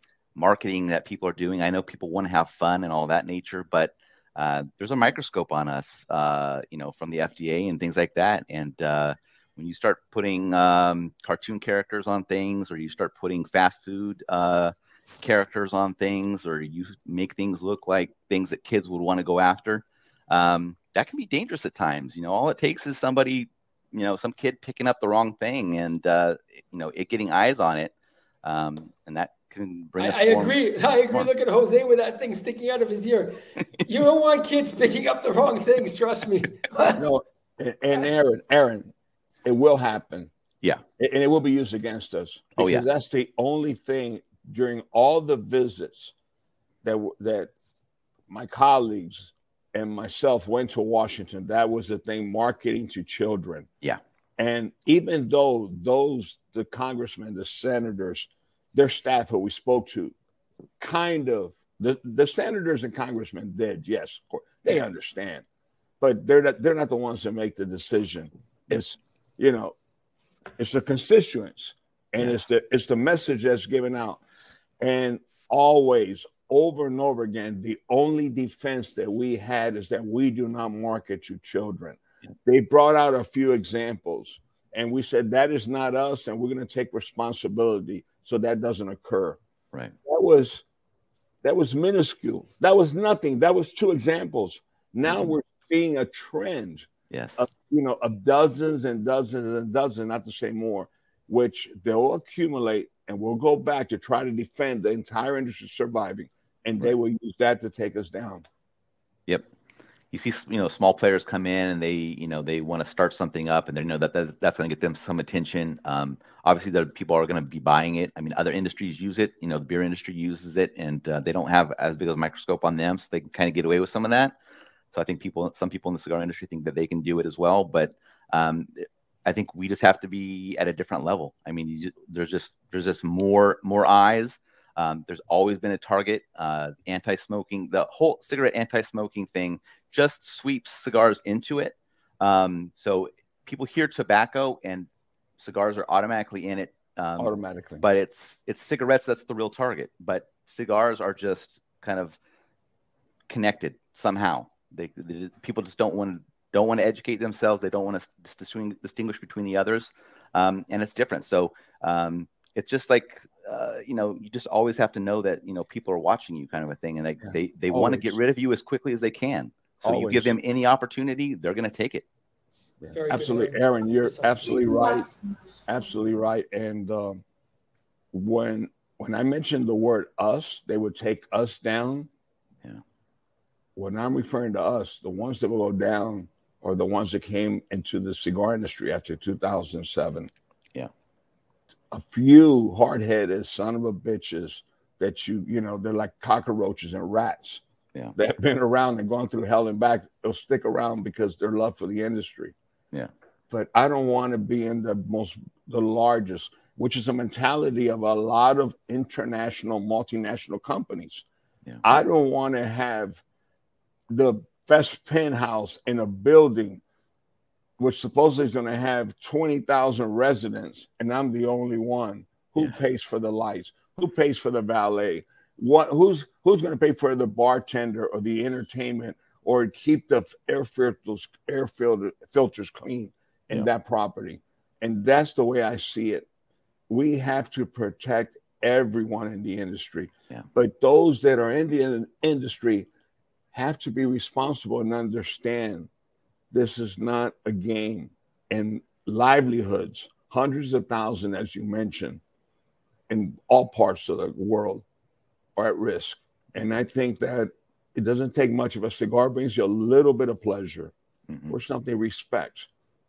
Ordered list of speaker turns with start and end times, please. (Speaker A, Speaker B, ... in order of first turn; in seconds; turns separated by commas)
Speaker A: 0.3-27.9, Speaker A: 28.4-31.3, Speaker B: 30.0-37.0, Speaker C: 37.0-38.9, Speaker C: 39.5-40.3, Speaker C: 41.0-46.1, Speaker A: 42.6-42.9, Speaker C: 46.8-47.5, Speaker C: 48.3-53.7, Speaker C: 54.4-60.1, Speaker C: 60.8-65.4, Speaker C: 66.0-69.8, Speaker C: 70.6-74.2, Speaker C: 74.8-89.4, Speaker C: 90.0-90.6, Speaker C: 91.4-108.5, Speaker A: 95.1-95.3, Speaker A: 97.1-97.4, Speaker A: 110.1-124.3, Speaker A: 124.9-152.2, Speaker C: 147.2-147.8, Speaker A: 153.3-172.1, Speaker C: 167.3-168.2, Speaker C: 169.8-170.3, Speaker C: 172.8-175.1, Speaker B: 172.9-175.0, Speaker C: 175.7-177.2, Speaker C: 178.1-182.1, Speaker C: 183.8-190.3, Speaker C: 191.9-197.6, Speaker C: 198.2-202.5, Speaker C: 203.5-211.2, Speaker C: 211.8-213.2, Speaker C: 214.1-216.8, Speaker C: 217.8-236.2, Speaker C: 236.9-242.9, Speaker C: 243.5-245.9, Speaker C: 246.5-252.2, Speaker C: 253.1-254.8, Speaker C: 255.6-260.9, Speaker C: 261.5-262.7